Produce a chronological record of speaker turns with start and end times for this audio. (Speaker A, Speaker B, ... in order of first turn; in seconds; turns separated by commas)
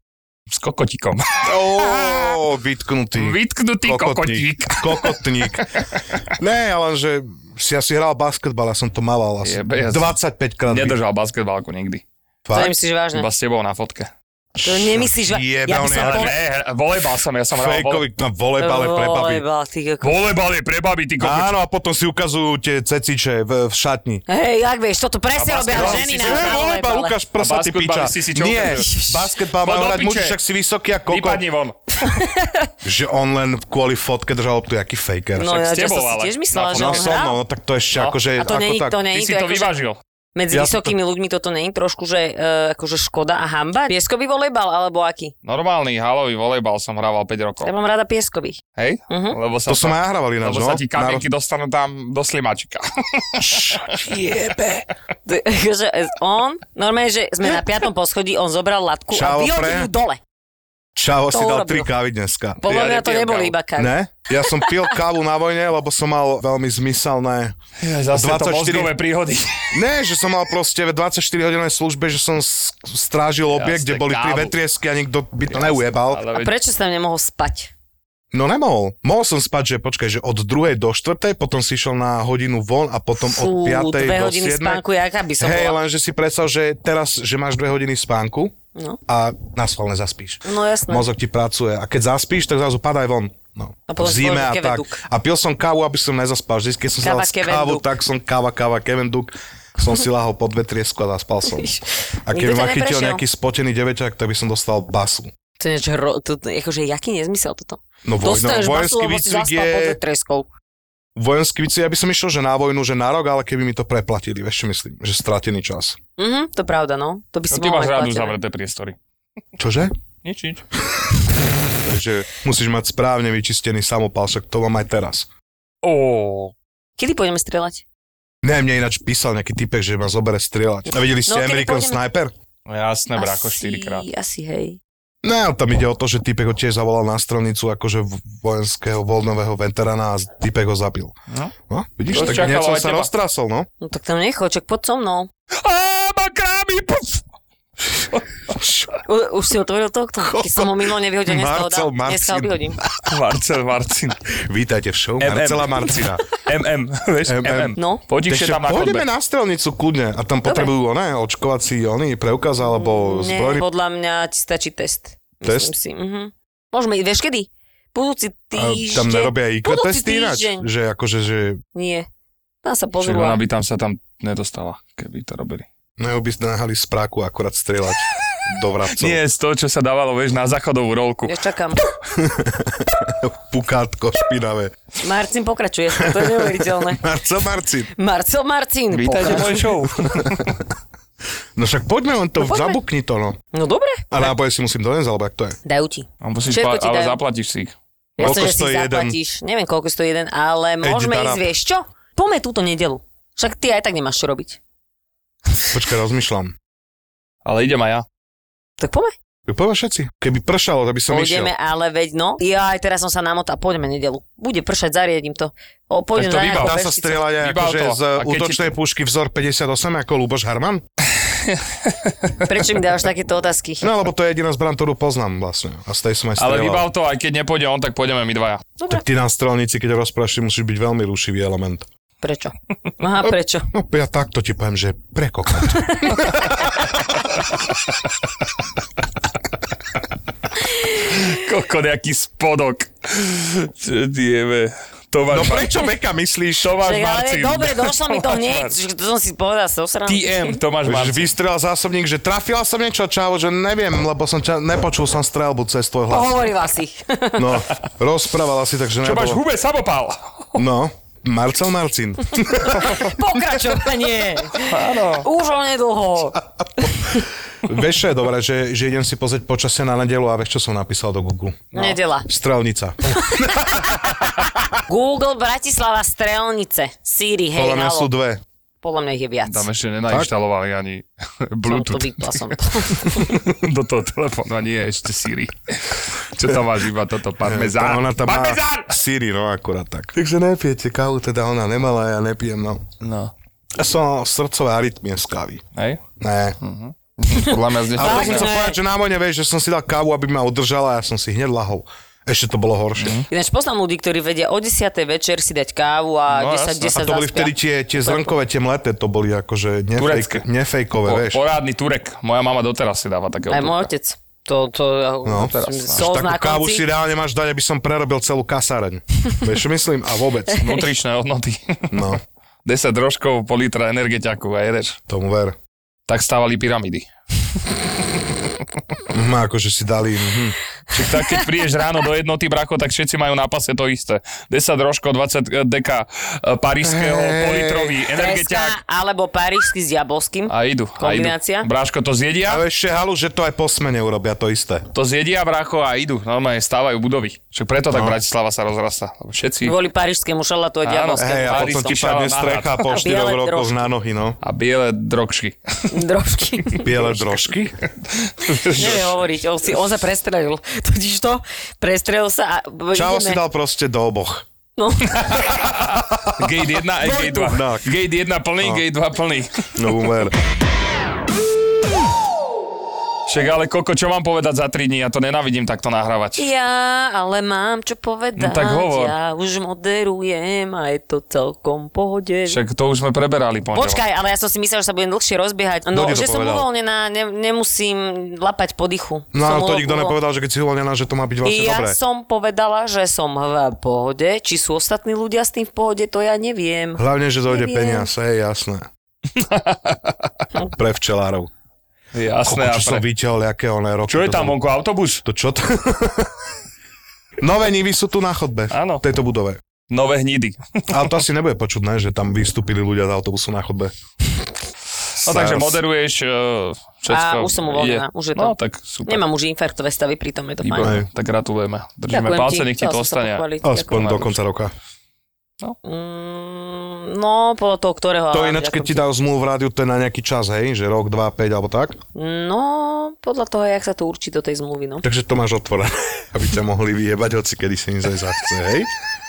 Speaker A: 0.5-2.4, Speaker B: 1.4-5.7, Speaker A: 3.2-5.6, Speaker B: 6.3-11.0, Speaker A: 9.4-10.1, Speaker A: 10.7-12.0, Speaker B: 12.4-12.7, Speaker C: 12.5-13.3, Speaker A: 13.1-14.1, Speaker B: 14.6-16.4, Speaker C: 14.6-16.4, Speaker A: 15.9-18.0, Speaker B: 17.5-19.4, Speaker C: 18.6-20.1, Speaker A: 20.0-21.5, Speaker B: 21.2-24.2, Speaker C: 24.3-27.2, Speaker A: 25.3-26.6, Speaker B: 25.7-31.4, Speaker A: 27.4-28.9, Speaker C: 28.7-29.3, Speaker A: 29.6-30.4, Speaker A: 31.1-31.8, Speaker C: 32.0-32.7, Speaker B: 32.8-35.6, Speaker C: 35.4-37.4, Speaker A: 35.5-37.1, Speaker B: 36.7-39.0, Speaker C: 38.4-39.8, Speaker A: 39.1-40.0, Speaker C: 40.3-45.3, Speaker B: 40.5-40.9, Speaker A: 45.4-47.7, Speaker C: 47.6-49.4, Speaker A: 48.8-54.7, Speaker B: 49.7-51.2, Speaker B: 53.4-54.7, Speaker C: 55.2-60.2, Speaker B: 59.1-59.9, Speaker B: 60.9-62.6, Speaker C: 61.3-61.9, Speaker C: 62.6-64.8, Speaker A: 62.6-63.5, Speaker B: 63.8-67.6, Speaker A: 67.8-69.8, Speaker B: 68.1-68.9, Speaker B: 69.7-76.2, Speaker A: 73.5-74.5, Speaker A: 75.5-76.5, Speaker C: 76.3-77.7, Speaker B: 78.3-84.8, Speaker C: 83.2-85.8, Speaker B: 85.4-88.5, Speaker B: 89.1-101.7, Speaker C: 90.4-91.0, Speaker C: 93.9-95.0, Speaker C: 97.0-97.9, Speaker C: 101.5-103.2, Speaker B: 102.2-105.3, Speaker C: 105.6-110.5, Speaker B: 108.0-110.0, Speaker B: 111.2-116.0, Speaker C: 116.2-118.3, Speaker A: 117.5-119.0, Speaker B: 119.6-119.9, Speaker A: 120.2-120.6, Speaker B: 121.7-125.3, Speaker A: 125.8-126.5, Speaker C: 127.0-127.8, Speaker B: 128.4-132.3, Speaker C: 131.3-132.0, Speaker A: 132.7-134.1, Speaker C: 133.1-134.8, Speaker B: 135.2-141.1, Speaker B: 141.7-143.7, Speaker A: 142.1-143.1, Speaker C: 142.1-142.5, Speaker C: 143.8-145.3, Speaker A: 145.6-147.2, Speaker A: 147.9-148.2, Speaker B: 148.5-148.9, Speaker C: 149.0-152.8, Speaker B: 150.2-153.0, Speaker A: 153.0-154.2, Speaker B: 154.4-156.2, Speaker A: 155.2-159.1, Speaker B: 157.2-163.6, Speaker C: 157.8-158.0, Speaker C: 160.4-160.7, Speaker C: 162.7-170.7, Speaker B: 165.4-165.7, Speaker B: 168.5-171.6, Speaker C: 171.7-172.1, Speaker C: 172.6-173.4, Speaker A: 173.0-175.6, Speaker B: 176.0-179.2, Speaker A: 178.9-181.3, Speaker C: 181.2-181.8, Speaker B: 182.1-184.7, Speaker C: 185.0-187.0, Speaker B: 186.0-187.9, Speaker C: 187.9-189.7, Speaker A: 188.9-190.5, Speaker B: 189.8-190.4, Speaker B: 191.6-193.4, Speaker C: 192.4-192.8, Speaker C: 193.5-194.3, Speaker B: 194.1-195.6, Speaker C: 195.6-197.2, Speaker A: 196.2-198.5, Speaker C: 198.2-204.6, Speaker B: 198.2-199.2, Speaker B: 200.8-201.5, Speaker B: 205.7-206.5, Speaker A: 207.4-208.0, Speaker C: 208.8-209.1, Speaker B: 209.5-211.5, Speaker C: 211.1-217.2, Speaker A: 216.2-216.8, Speaker B: 216.4-220.8, Speaker A: 217.4-218.7, Speaker A: 221.2-222.3, Speaker C: 222.4-223.9, Speaker B: 223.8-226.9, Speaker A: 226.4-228.7, Speaker B: 228.9-231.9, Speaker C: 232.2-233.7, Speaker B: 233.7-236.8, Speaker C: 235.8-236.3, Speaker A: 240.9-245.8, Speaker B: 245.3-246.8, Speaker A: 246.6-248.7, Speaker C: 246.8-250.6, Speaker A: 250.1-251.3, Speaker B: 250.8-256.4, Speaker C: 256.1-257.6, Speaker B: 257.4-259.4, Speaker A: 259.0-260.6, Speaker B: 260.6-262.9, Speaker C: 262.6-267.2, Speaker A: 264.6-265.2, Speaker B: 267.6-273.8, Speaker C: 271.7-272.3, Speaker C: 273.3-273.9, Speaker C: 274.9-278.1, Speaker B: 277.5-278.4, Speaker C: 278.8-279.7, Speaker A: 279.4-288.9, Speaker C: 281.6-283.4, Speaker B: 287.4-292.9, Speaker A: 293.0-293.3, Speaker B: 293.8-295.6, Speaker A: 295.7-296.0, Speaker B: 296.2-296.6, Speaker A: 296.6-298.5, Speaker C: 297.3-298.8, Speaker B: 297.9-303.2, Speaker A: 303.0-303.3, Speaker C: 303.3-308.3, Speaker A: 306.3-307.0, Speaker B: 306.9-311.4, Speaker A: 310.0-310.4, Speaker A: 311.0-313.9, Speaker C: 313.5-316.8, Speaker B: 315.2-320.6, Speaker A: 315.5-316.1, Speaker C: 320.6-320.8, Speaker A: 320.6-325.0, Speaker B: 321.9-322.2, Speaker B: 325.1-325.6, Speaker A: 326.1-327.1, Speaker B: 329.1-330.6, Speaker A: 330.9-338.8, Speaker B: 336.8-338.0, Speaker C: 338.1-341.7, Speaker A: 340.5-342.6, Speaker B: 342.4-344.9, Speaker A: 344.9-349.7, Speaker B: 347.9-348.2, Speaker C: 349.6-351.9, Speaker A: 350.8-352.8, Speaker B: 351.2-354.4, Speaker C: 352.8-353.8, Speaker A: 354.4-356.0, Speaker C: 355.9-356.9, Speaker B: 356.8-357.8, Speaker A: 358.0-359.2, Speaker C: 358.6-363.4, Speaker B: 362.9-364.4, Speaker C: 364.8-365.5, Speaker A: 365.2-369.9, Speaker C: 367.0-367.6, Speaker B: 367.3-367.9, Speaker B: 369.8-370.4, Speaker A: 373.3-376.4, Speaker C: 376.4-382.6, Speaker A: 378.4-379.1, Speaker A: 382.5-384.0, Speaker C: 383.7-390.2, Speaker B: 385.9-386.7, Speaker B: 389.3-392.0, Speaker C: 391.4-398.1, Speaker B: 397.0-398.9, Speaker A: 399.3-400.2, Speaker B: 400.7-401.5, Speaker A: 402.1-403.0, Speaker B: 402.4-404.6, Speaker A: 404.1-405.2, Speaker B: 405.2-406.3, Speaker B: 407.4-409.6, Speaker A: 408.7-409.0, Speaker A: 409.9-411.1, Speaker B: 410.9-413.9, Speaker A: 415.2-419.2, Speaker B: 415.2-415.8, Speaker C: 417.1-420.9, Speaker A: 420.6-424.3, Speaker B: 420.8-421.1, Speaker C: 422.1-424.3, Speaker B: 423.6-424.7, Speaker C: 425.8-429.0, Speaker B: 428.3-432.0, Speaker C: 432.1-435.0, Speaker B: 435.0-438.9